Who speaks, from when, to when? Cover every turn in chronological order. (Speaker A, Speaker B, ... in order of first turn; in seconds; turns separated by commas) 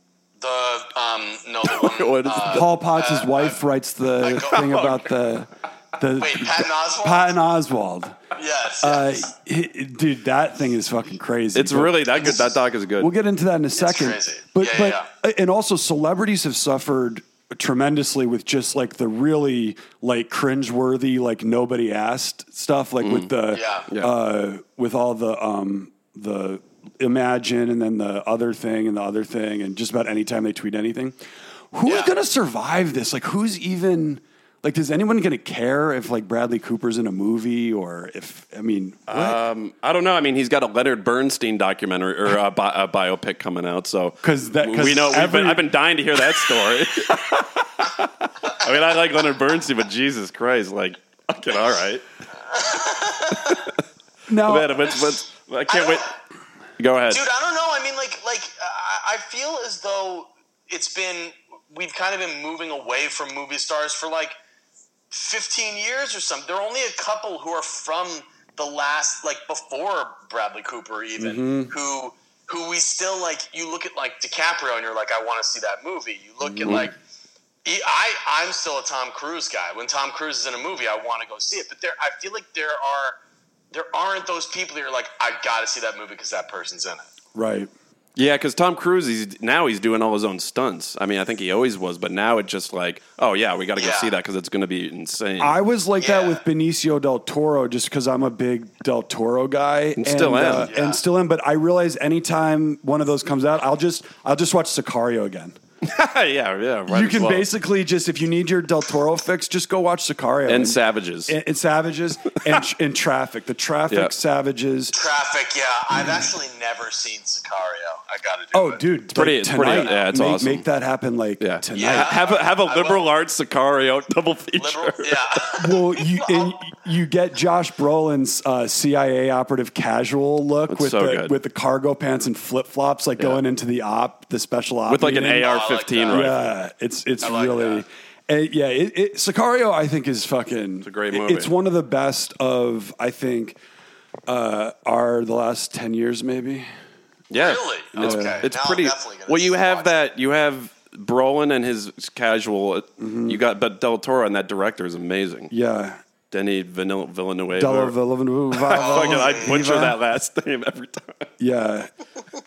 Speaker A: 0.4-3.6, Speaker B: 1.6-2.7, Speaker C: 2.5-8.2, Speaker A: 4.2-4.8, Speaker B: 4.5-5.0, Speaker A: 6.2-7.3, Speaker A: 8.3-9.3, Speaker C: 8.8-31.2, Speaker B: 11.5-13.1, Speaker A: 13.8-15.1, Speaker B: 23.0-23.3, Speaker A: 23.5-23.9, Speaker C: 31.7-39.4, Speaker A: 31.9-32.1, Speaker B: 39.1-52.0, Speaker C: 44.2-45.8, Speaker A: 52.5-53.6, Speaker B: 53.4-53.7, Speaker C: 54.3-55.0, Speaker B: 54.4-56.1, Speaker A: 55.7-56.1, Speaker B: 56.8-57.2, Speaker A: 57.1-64.3, Speaker A: 65.1-77.0, Speaker C: 71.2-71.7, Speaker C: 76.4-76.9, Speaker A: 77.6-83.2, Speaker A: 83.7-87.1, Speaker C: 87.3-87.7, Speaker B: 88.2-95.6, Speaker A: 93.8-94.1, Speaker C: 95.4-105.6, Speaker A: 96.0-96.4, Speaker B: 100.0-100.7, Speaker A: 100.6-101.0, Speaker B: 105.8-107.5, Speaker C: 106.9-114.9, Speaker B: 110.5-111.3, Speaker A: 114.9-118.8, Speaker C: 118.5-122.1, Speaker B: 119.1-120.6, Speaker A: 119.7-120.0, Speaker B: 121.4-125.4, Speaker A: 121.7-123.1, Speaker A: 124.6-126.6, Speaker C: 125.5-135.5, Speaker B: 130.7-131.3, Speaker B: 134.9-136.5, Speaker A: 135.4-136.4, Speaker C: 136.1-143.6, Speaker A: 137.2-137.8, Speaker B: 140.8-141.5, Speaker C: 144.3-146.7, Speaker B: 147.3-155.5, Speaker A: 147.3-150.0, Speaker C: 147.9-148.4, Speaker C: 153.0-153.4, Speaker C: 155.5-156.0, Speaker B: 156.3-157.9, Speaker C: 157.6-160.0, Speaker B: 158.5-161.3, Speaker A: 158.7-159.6, Speaker C: 161.4-161.9